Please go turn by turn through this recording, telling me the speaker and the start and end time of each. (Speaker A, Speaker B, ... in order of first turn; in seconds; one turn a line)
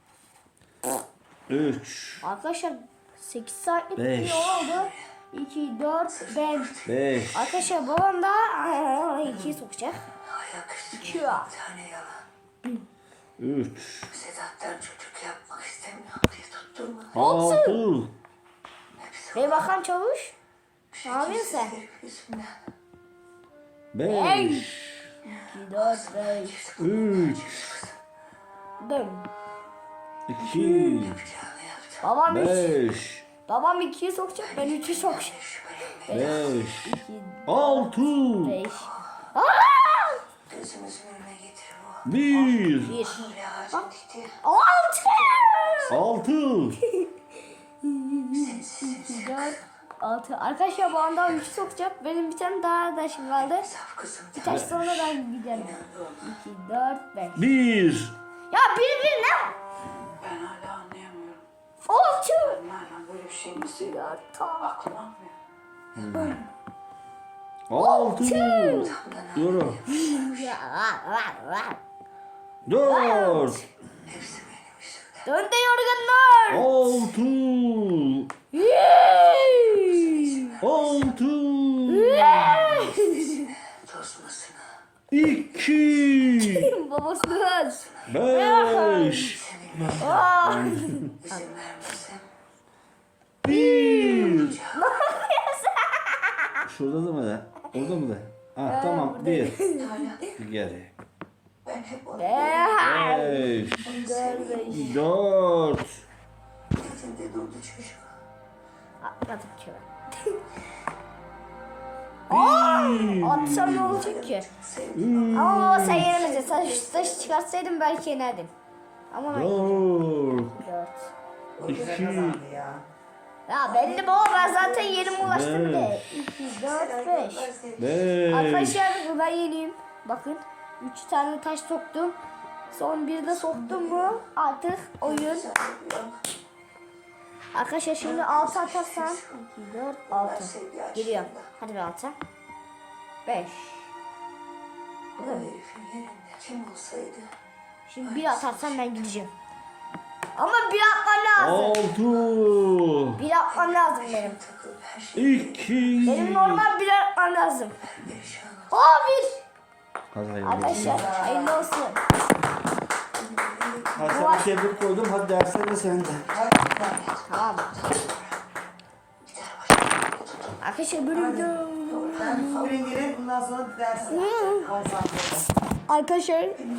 Speaker A: 1.5-2.2
Speaker B: 2.2-10.0
Speaker A: 4.0-4.7
Speaker A: 6.8-7.5
Speaker C: 10.3-12.2
Speaker B: 10.9-11.5
Speaker A: 13.4-14.1
Speaker C: 14.1-17.2
Speaker A: 17.1-18.1
Speaker B: 17.1-17.8
Speaker C: 19.0-19.6
Speaker B: 19.3-20.3
Speaker C: 20.9-22.6
Speaker B: 21.0-21.8
Speaker A: 23.9-25.1
Speaker B: 24.1-24.7
Speaker B: 25.2-26.6
Speaker C: 25.8-27.9
Speaker A: 26.8-27.7
Speaker B: 28.8-29.3
Speaker A: 30.3-31.3
Speaker B: 30.4-31.0
Speaker C: 31.1-32.0
Speaker B: 32.0-32.8
Speaker A: 32.2-33.3
Speaker B: 33.5-35.4
Speaker C: 34.4-36.2
Speaker B: 36.0-40.2
Speaker A: 36.1-38.6
Speaker C: 40.5-44.4
Speaker A: 42.0-43.0
Speaker B: 42.8-43.9
Speaker B: 44.4-46.0
Speaker A: 45.9-46.8
Speaker B: 46.8-47.1
Speaker B: 47.8-53.7
Speaker C: 48.4-49.6
Speaker C: 53.7-54.5
Speaker B: 54.3-57.5
Speaker A: 54.4-55.1
Speaker C: 55.5-56.2
Speaker A: 57.4-58.1
Speaker B: 58.5-59.5
Speaker C: 60.2-61.4
Speaker B: 61.9-62.6
Speaker C: 62.4-64.0
Speaker B: 63.7-64.7
Speaker C: 64.6-65.3
Speaker A: 66.0-66.4
Speaker B: 66.1-66.4
Speaker A: 67.7-69.8
Speaker B: 67.8-69.0
Speaker C: 68.9-70.2
Speaker B: 69.9-71.8
Speaker A: 72.6-73.6
Speaker B: 72.8-73.6
Speaker C: 74.1-75.2
Speaker B: 75.2-76.7
Speaker A: 76.5-78.3
Speaker B: 78.5-80.5
Speaker C: 79.9-80.2
Speaker A: 80.6-82.7
Speaker B: 81.9-83.5
Speaker C: 82.9-84.7
Speaker A: 85.1-86.7
Speaker B: 86.4-89.3
Speaker C: 87.8-88.1
Speaker A: 88.1-91.2
Speaker C: 89.3-89.9
Speaker B: 90.0-91.5
Speaker C: 91.2-92.3
Speaker A: 93.4-94.6
Speaker B: 93.4-96.6
Speaker A: 96.7-99.5
Speaker B: 98.7-100.1
Speaker C: 99.8-100.3
Speaker A: 100.4-100.9
Speaker C: 101.6-102.7
Speaker B: 102.1-105.0
Speaker A: 102.8-104.0
Speaker C: 103.8-104.9
Speaker A: 104.6-106.0
Speaker C: 106.7-108.1
Speaker B: 109.0-110.4
Speaker A: 112.3-114.1
Speaker B: 112.3-114.5
Speaker C: 114.0-115.3
Speaker A: 114.9-116.2
Speaker B: 115.3-118.5
Speaker C: 116.1-117.3
Speaker B: 119.1-121.1
Speaker A: 119.3-120.5
Speaker D: 121.6-122.8
Speaker A: 121.6-122.4
Speaker B: 123.5-127.5
Speaker C: 123.7-125.2
Speaker A: 125.2-126.0
Speaker C: 126.6-127.9
Speaker A: 127.8-128.9
Speaker B: 128.3-132.2
Speaker B: 132.7-135.5
Speaker C: 133.5-134.1
Speaker C: 135.0-136.2
Speaker B: 137.5-142.2
Speaker C: 138.0-139.2
Speaker C: 140.1-141.5
Speaker B: 143.2-143.9
Speaker B: 145.2-145.5
Speaker C: 145.2-147.3
Speaker B: 147.9-149.3
Speaker C: 148.0-148.8
Speaker B: 150.3-151.8
Speaker A: 151.4-153.2
Speaker B: 153.2-154.4
Speaker C: 153.6-155.6
Speaker A: 155.1-156.7
Speaker B: 156.0-157.8
Speaker C: 157.8-158.7
Speaker B: 158.7-159.4
Speaker A: 160.1-161.1
Speaker B: 160.4-162.0
Speaker D: 160.6-161.7
Speaker C: 163.4-163.9
Speaker A: 163.9-166.3
Speaker B: 164.0-164.5
Speaker D: 166.2-167.1
Speaker B: 167.3-167.7
Speaker C: 169.3-170.5
Speaker B: 170.6-172.7
Speaker D: 171.1-175.5
Speaker C: 172.4-172.7
Speaker B: 174.1-174.7
Speaker B: 175.9-176.6